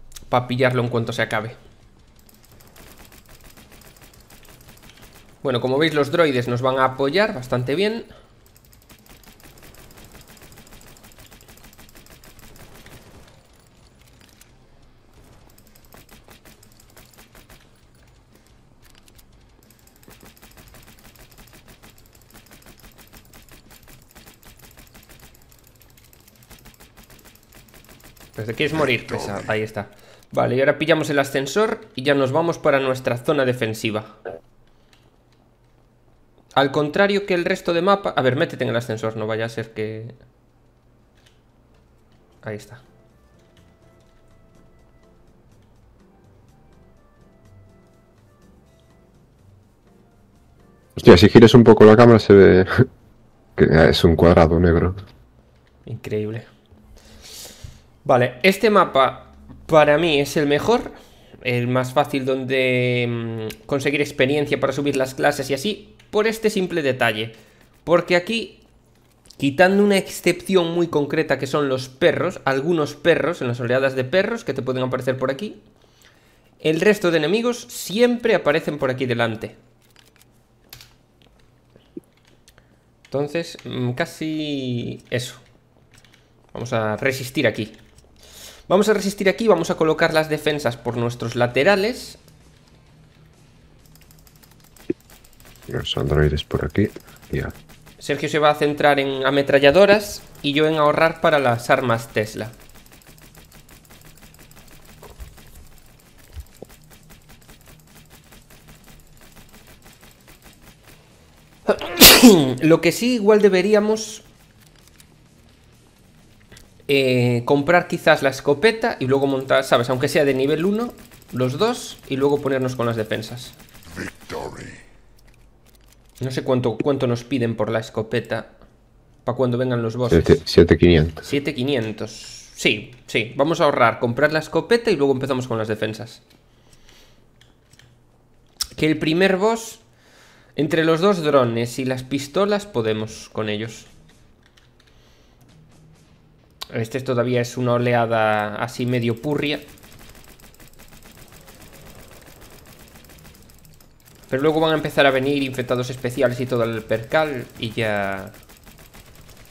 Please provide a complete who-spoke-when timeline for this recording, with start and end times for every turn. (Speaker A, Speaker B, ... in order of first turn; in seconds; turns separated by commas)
Speaker A: 0.3-1.6, Speaker A: 5.4-8.1, Speaker A: 28.4-34.2, Speaker A: 36.5-40.1, Speaker A: 42.4-42.8, Speaker B: 51.0-52.9, Speaker B: 53.5-55.0, Speaker A: 55.9-56.5, Speaker A: 58.0-68.6, Speaker A: 69.4-75.6, Speaker A: 76.6-79.6, Speaker A: 83.1-85.4, Speaker A: 86.5-87.8, Speaker A: 88.7-92.2, Speaker B: 95.7-97.5, Speaker A: 98.0-102.5, Speaker A: 111.7-114.2, Speaker A: 116.9-123.5, Speaker A: 126.2-128.5, Speaker A: 129.2-130.4, Speaker B: 130.1-131.2, Speaker A: 131.2-136.2, Speaker A: 138.8-139.8, Speaker A: 140.6-143.9, Speaker A: 146.7-149.7, Speaker A: 154.3-158.3